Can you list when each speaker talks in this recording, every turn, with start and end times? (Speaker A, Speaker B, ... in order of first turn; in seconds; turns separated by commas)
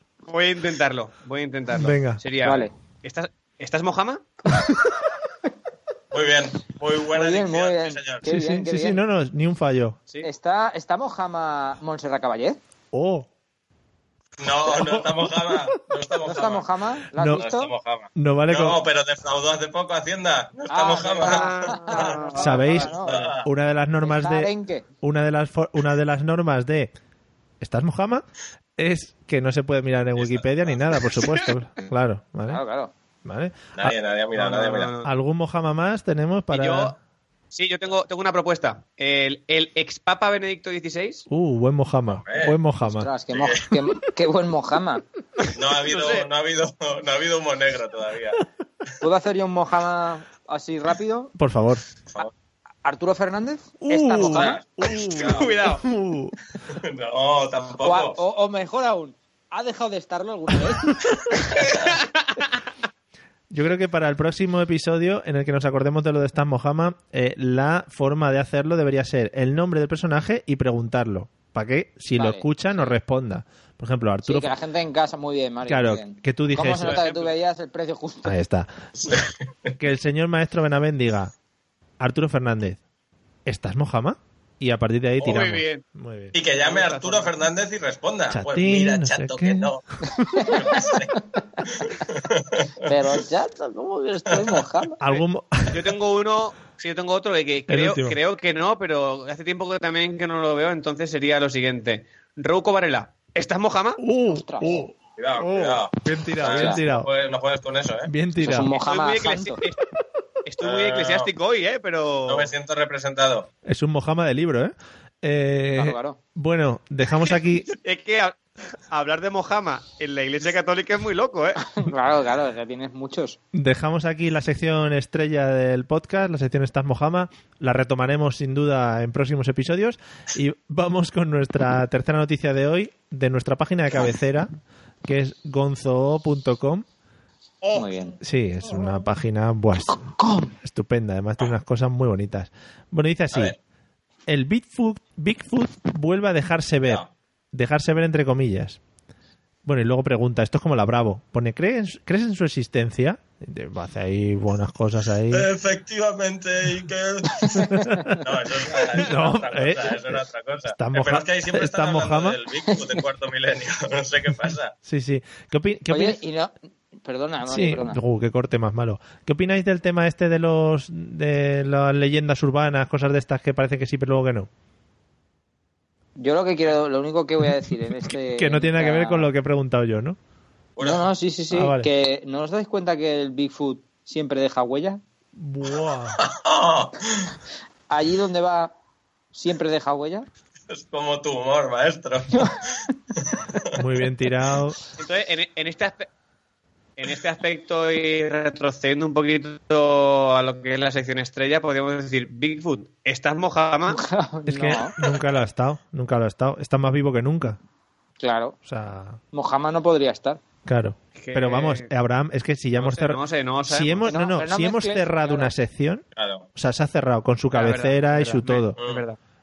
Speaker A: 0.2-4.3, Speaker B: 1.7-2.2, Speaker C: 2.4-2.7, Speaker D: 6.1-8.2, Speaker C: 7.2-9.0, Speaker B: 8.2-10.0, Speaker C: 10.2-12.6, Speaker B: 12.9-13.3, Speaker D: 14.4-16.7, Speaker B: 14.7-15.7, Speaker C: 16.2-17.7, Speaker B: 17.2-17.4, Speaker D: 17.3-23.5, Speaker B: 18.2-18.8, Speaker C: 20.7-23.3, Speaker A: 21.2-22.8, Speaker B: 22.4-24.5, Speaker C: 24.0-24.9, Speaker B: 25.0-26.9, Speaker B: 27.6-28.2, Speaker B: 28.8-32.6, Speaker D: 30.2-30.8, Speaker A: 31.2-31.5, Speaker C: 32.5-32.9, Speaker B: 33.2-34.0, Speaker D: 33.8-34.9, Speaker A: 34.3-35.1, Speaker B: 35.0-37.0, Speaker A: 36.5-37.0, Speaker A: 37.5-41.3, Speaker B: 41.3-43.1, Speaker D: 42.2-42.6, Speaker C: 42.8-45.0, Speaker D: 43.3-43.7, Speaker D: 45.5-48.4, Speaker A: 45.8-46.3, Speaker C: 49.0-51.3, Speaker B: 51.4-51.8, Speaker C: 52.8-54.6, Speaker B: 53.8-56.4, Speaker D: 54.2-55.7, Speaker A: 54.9-55.8, Speaker D: 56.7-58.2, Speaker C: 57.8-60.9, Speaker D: 61.6-62.0, Speaker A: 62.2-62.4, Speaker B: 63.5-74.5, Speaker C: 72.2-72.9, Speaker C: 74.2-78.4, Speaker B: 75.7-77.0, Speaker A: 76.8-77.3, Speaker B: 78.2-78.7, Speaker D: 79.0-79.7, Speaker B: 79.8-81.3, Speaker B: 82.0-82.8, Speaker B: 83.5-86.3, Speaker A: 85.2-85.8, Speaker D: 86.3-89.8, Speaker A: 86.5-87.5, Speaker B: 88.3-90.4, Speaker C: 90.3-91.0, Speaker D: 90.4-92.7, Speaker C: 92.8-95.0, Speaker B: 95.0-95.9, Speaker A: 95.1-104.0, Speaker B: 97.7-98.2, Speaker B: 104.0-107.1, Speaker C: 104.3-104.9, Speaker D: 105.2-108.1, Speaker C: 106.5-106.8, Speaker B: 108.1-108.7, Speaker C: 108.4-109.6, Speaker A: 108.7-109.8, Speaker A: 110.5-112.5, Speaker D: 110.6-111.3, Speaker D: 112.3-113.5, Speaker B: 113.7-117.7, Speaker C: 115.8-116.2, Speaker A: 117.7-121.7, Speaker C: 121.7-123.4, Speaker B: 123.5-134.5, Speaker B: 135.1-136.8, Speaker A: 137.6-137.9, Speaker C: 137.7-138.2, Speaker B: 138.2-140.1, Speaker C: 140.0-140.5, Speaker B: 140.6-143.6, Speaker B: 144.3-148.8, Speaker D: 146.8-147.1, Speaker B: 149.7-155.5, Speaker D: 155.3-164.7, Speaker C: 157.4-158.2, Speaker B: 157.8-158.0, Speaker B: 159.0-162.4, Speaker B: 164.8-166.2, Speaker C: 165.9-166.5, Speaker C: 167.0-168.0, Speaker B: 167.5-174.5, Speaker C: 176.2-179.3, Speaker B: 177.7-180.2, Speaker D: 180.8-181.1, Speaker C: 180.8-185.0, Speaker B: 181.5-181.9, Speaker B: 185.4-186.2, Speaker D: 186.2-187.3, Speaker C: 187.9-188.7, Speaker C: 189.3-190.3, Speaker D: 190.7-192.7, Speaker D: 193.2-193.8, Speaker B: 193.8-194.8, Speaker A: 195.0-196.1, Speaker A: 197.0-204.0, Speaker C: 203.9-204.9, Speaker B: 204.5-207.6, Speaker C: 208.2-208.6, Speaker B: 208.7-209.2, Speaker C: 209.3-210.4, Speaker B: 210.7-216.0, Speaker A: 211.2-211.9, Speaker A: 212.8-214.2, Speaker C: 214.1-215.5, Speaker D: 216.2-216.5, Speaker B: 216.6-218.8, Speaker A: 217.5-219.2, Speaker D: 218.8-219.0